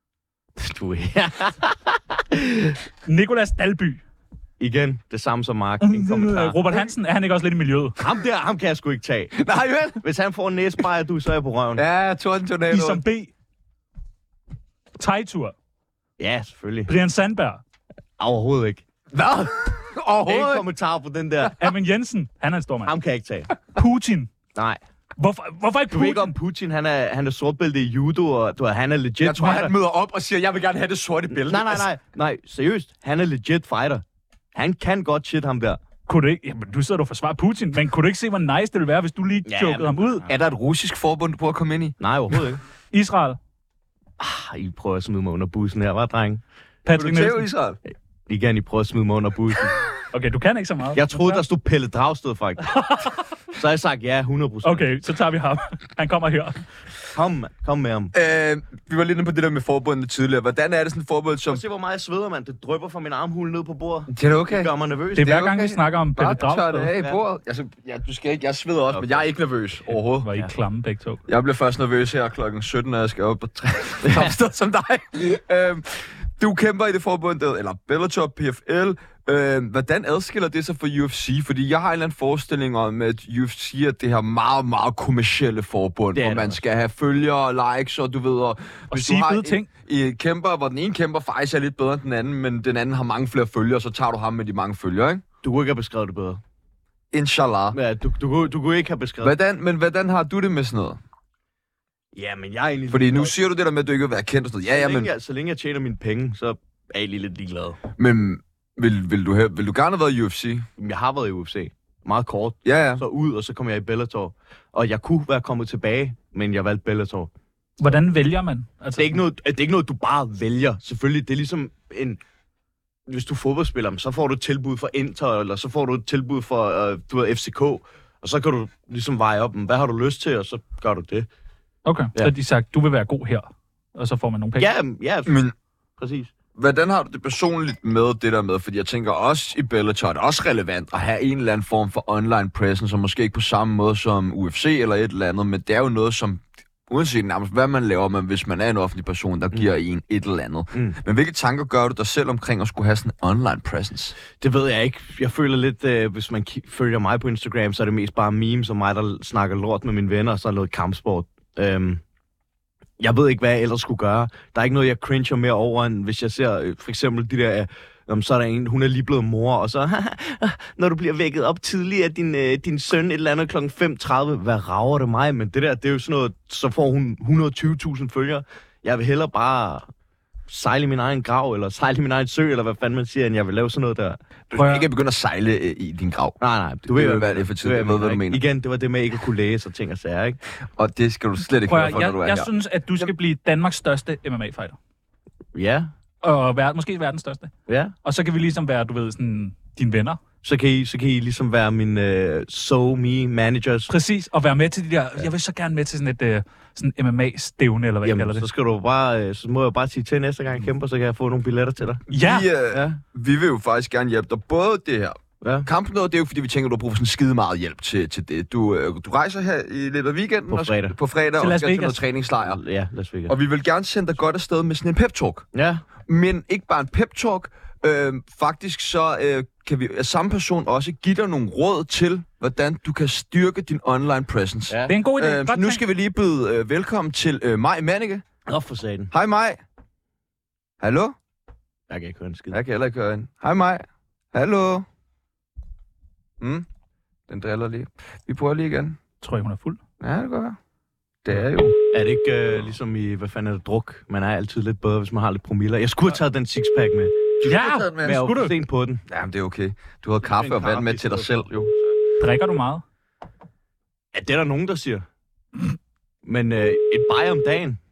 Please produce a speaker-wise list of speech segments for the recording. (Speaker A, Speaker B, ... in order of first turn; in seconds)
Speaker A: 0.6-2.8, 4.6-6.6, 8.0-9.4, 10.0-11.8, 16.2-16.9, 18.2-18.9, 20.2-21.6, 22.9-23.5, 24.6-24.8, 25.9-29.7, 31.3-34.0, 34.5-35.8, 39.5-40.3, 42.0-42.6, 44.2-46.4, 48.3-49.8, 51.0-52.8, 53.5-55.0, 57.1-58.1, 61.5-65.4, 68.9-69.3, 86.1-86.6, 95.4-96.4, 97.7-99.4, 102.2-103.3, 104.7-107.8, 110.8-117.3, 119.0-122.2, 123.1-131.3, 134.6-135.4, 136.0-136.3, 154.4-162.0, 163.0-179.9, 180.5-184.2, 186.4-190.4, 195.5-195.9, 197.7-197.9, 200.4-203.9, 208.0-212.1, 212.7-213.0, 215.4-215.7, 220.5-221.0, 222.4-223.4, 225.5-225.8, 234.7-234.9, 238.5-239.1, 241.9-242.6, 251.3-257.4, 258.0-259.0, 260.2-261.5, 264.1-265.1, 266.2-267.8
Speaker B: 3.0-4.0, 5.8-8.0, 12.7-13.3, 15.0-15.6, 16.9-17.6, 21.6-22.9, 23.7-24.3, 25.2-26.4, 36.1-40.2, 42.9-43.4, 46.9-47.5, 50.1-51.4, 52.7-53.3, 54.6-56.6, 65.2-66.9, 70.2-71.2, 88.9-89.7, 117.8-119.2, 131.8-134.7, 184.5-184.9, 191.7-194.8, 196.2-197.5, 198.0-200.2, 203.9-208.4, 212.1-212.5, 221.4-222.0, 234.9-235.8, 249.2-249.8, 257.4-258.5, 262.2-262.8
Speaker C: 9.4-10.0, 11.8-13.0, 19.1-20.7, 29.2-31.9, 40.3-42.0, 47.0-47.8, 58.1-61.6, 64.1-70.3, 71.3-95.2, 97.1-97.8, 99.2-101.0, 102.9-105.1, 108.0-110.7, 112.7-113.0, 135.3-135.5, 136.6-154.2, 184.5-188.4, 190.7-193.1, 212.2-222.6, 223.3-225.5, 226.1-238.2, 239.1-239.6, 240.8-241.1, 242.5-244.8, 247.3-249.0, 250.0-250.6, 251.2-251.8, 257.4-258.2, 259.1-261.7